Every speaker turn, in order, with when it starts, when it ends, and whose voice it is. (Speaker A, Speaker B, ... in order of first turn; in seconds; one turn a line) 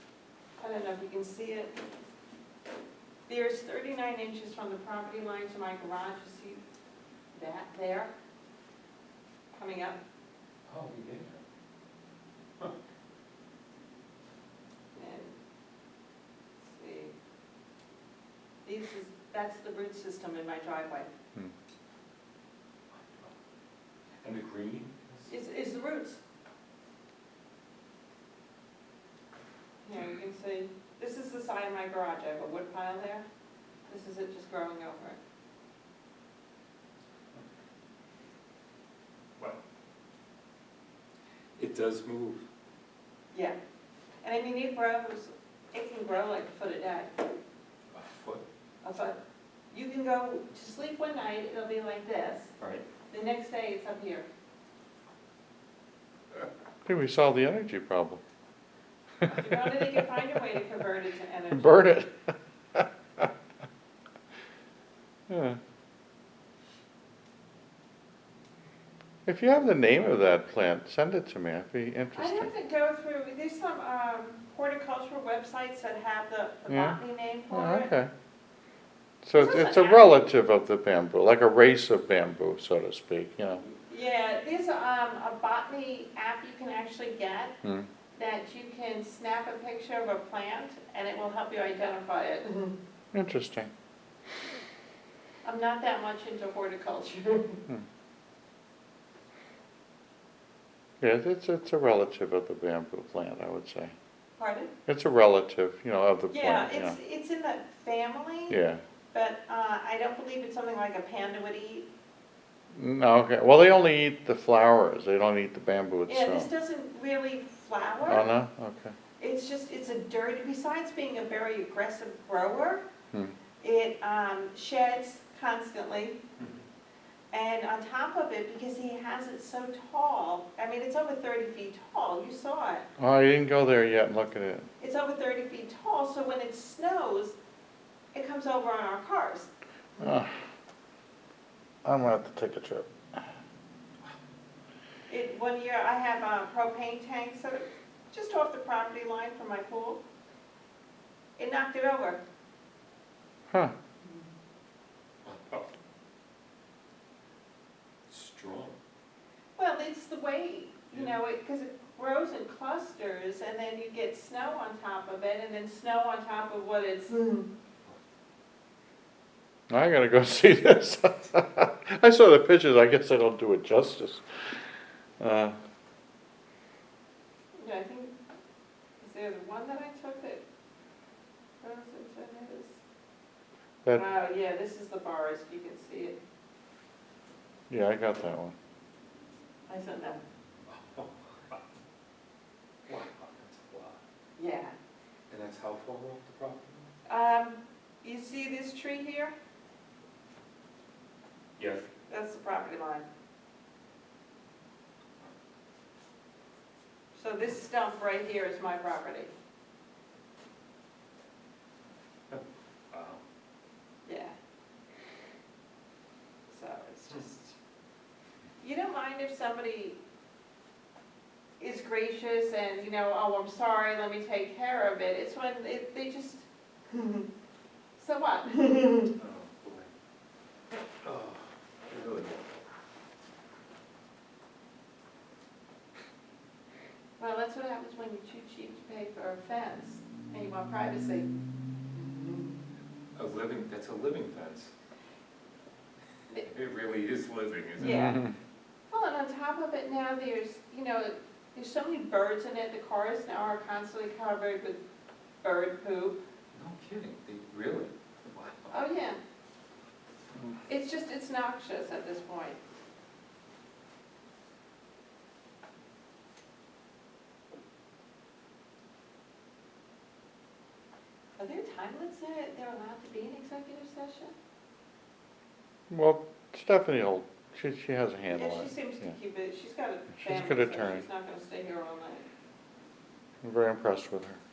Speaker A: 0.6-1.8
Speaker A: 3.3-6.6
Speaker A: 7.3-8.1
Speaker A: 9.5-10.0
Speaker B: 10.7-11.4
Speaker A: 15.0-15.4
Speaker A: 16.7-17.1
Speaker A: 18.6-21.1
Speaker B: 22.9-23.3
Speaker B: 24.2-25.3
Speaker A: 25.3-26.2
Speaker A: 29.8-33.2
Speaker A: 33.9-35.2
Speaker B: 41.6-42.4
Speaker A: 44.2-47.2
Speaker B: 47.9-48.5
Speaker A: 48.8-49.2
Speaker A: 49.7-52.5
Speaker B: 52.6-52.9
Speaker A: 53.1-54.3
Speaker C: 56.9-58.2
Speaker C: 59.2-59.7
Speaker A: 59.3-62.0
Speaker C: 61.5-63.3
Speaker C: 65.3-65.6
Speaker C: 69.3-72.5
Speaker A: 72.2-77.9
Speaker C: 76.7-77.0
Speaker C: 77.5-78.1
Speaker C: 79.2-83.6
Speaker A: 79.3-80.3
Speaker A: 83.7-87.5
Speaker A: 88.1-92.8
Speaker C: 93.1-93.7
Speaker A: 95.4-97.6
Speaker C: 101.0-103.9
Speaker A: 104.4-104.7
Speaker C: 104.9-107.0
Speaker A: 106.3-108.6
Speaker C: 108.5-108.8
Speaker A: 109.1-111.9
Speaker C: 112.7-116.5
Speaker A: 116.1-118.3
Speaker C: 118.0-118.9
Speaker A: 119.2-122.8
Speaker A: 123.6-126.2
Speaker A: 127.3-132.9
Speaker C: 133.0-134.7
Speaker A: 134.8-137.4
Speaker A: 138.1-139.5
Speaker C: 140.0-140.3
Speaker C: 141.8-142.9
Speaker A: 145.1-150.0
Speaker A: 151.4-152.2
Speaker B: 155.2-155.7
Speaker B: 158.1-158.8
Speaker A: 159.6-167.3
Speaker C: 169.7-174.2
Speaker C: 175.2-175.6
Speaker A: 177.6-178.2
Speaker A: 179.0-180.4
Speaker A: 181.6-182.8
Speaker A: 183.9-186.2
Speaker C: 187.7-188.6
Speaker A: 189.7-190.2
Speaker B: 190.7-191.6
Speaker B: 192.9-194.0
Speaker A: 194.4-194.7
Speaker B: 195.3-196.9
Speaker A: 197.1-199.3
Speaker B: 201.6-201.9
Speaker A: 202.1-203.1
Speaker A: 207.1-209.3
Speaker B: 212.3-213.2
Speaker A: 214.1-214.3
Speaker A: 216.5-217.6
Speaker A: 218.6-220.0
Speaker A: 221.6-227.2
Speaker A: 228.0-229.1
Speaker B: 229.2-229.9
Speaker B: 231.0-232.4
Speaker A: 237.2-241.3
Speaker A: 242.0-242.5
Speaker B: 243.2-244.7
Speaker B: 246.4-248.1
Speaker A: 247.8-248.2
Speaker C: 247.8-248.3
Speaker A: 248.9-254.8
Speaker A: 255.4-256.2
Speaker B: 256.5-258.7
Speaker A: 258.7-259.2
Speaker A: 260.7-262.6
Speaker A: 271.4-274.3
Speaker C: 275.9-279.1
Speaker A: 278.3-282.3
Speaker C: 280.2-281.1
Speaker C: 283.4-284.4